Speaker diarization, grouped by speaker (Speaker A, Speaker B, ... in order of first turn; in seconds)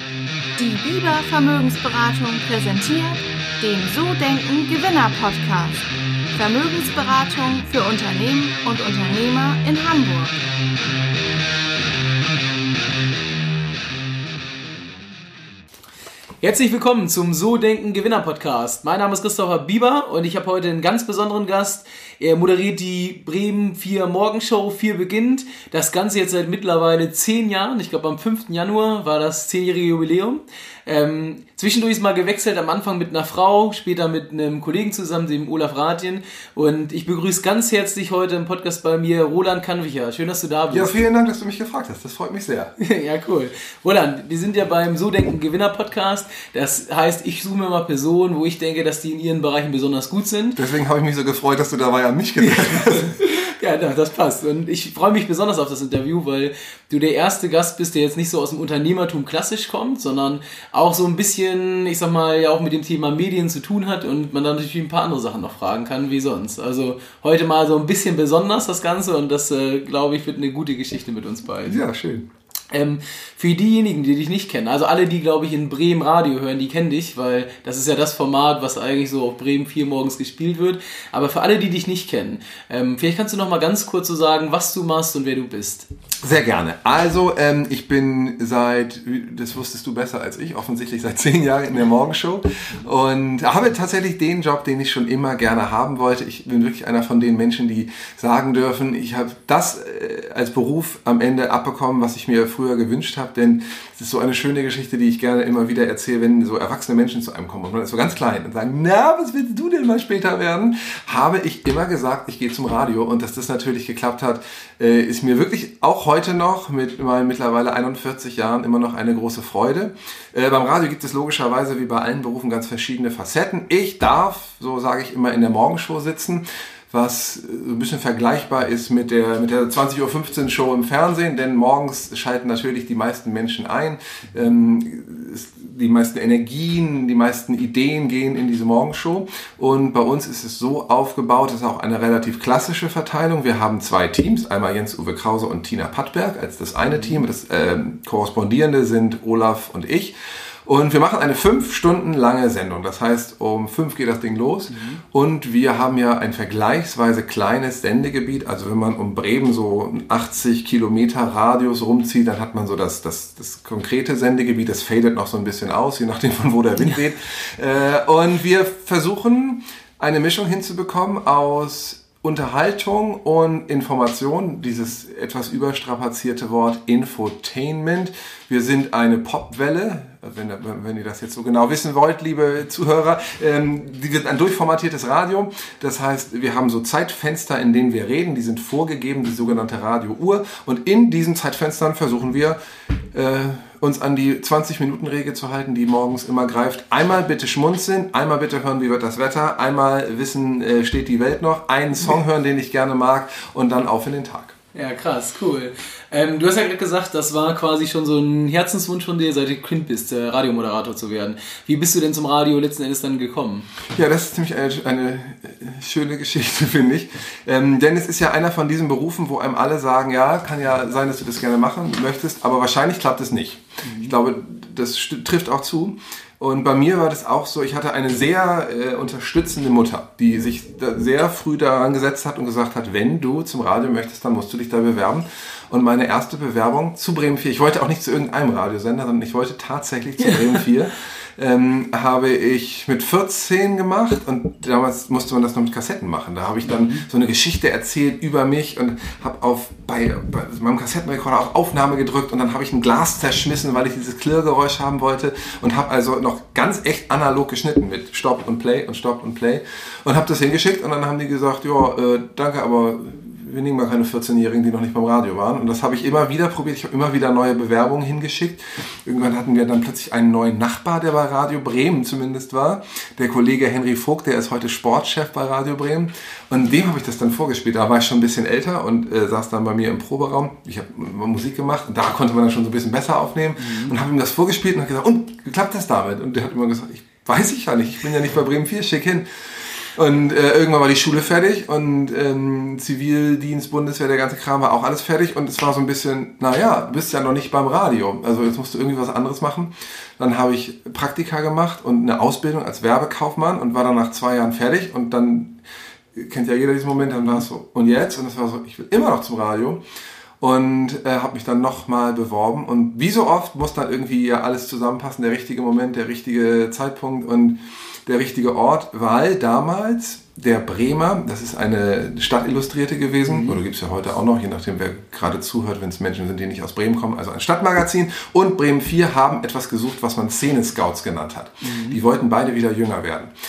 Speaker A: 0.6-10.4
Speaker B: 16.4-41.0, 42.8-50.6, 52.4-71.8, 72.7-85.9, 154.7-155.0, 204.7-213.7, 223.8-224.1, 283.6-283.9, 323.3-323.6, 331.6-332.0
Speaker C: 40.7-42.7, 50.5-53.2, 71.7-72.3, 86.2-192.6, 193.1-204.5, 213.9-289.3, 289.8-305.6, 306.1-309.8, 310.4-333.3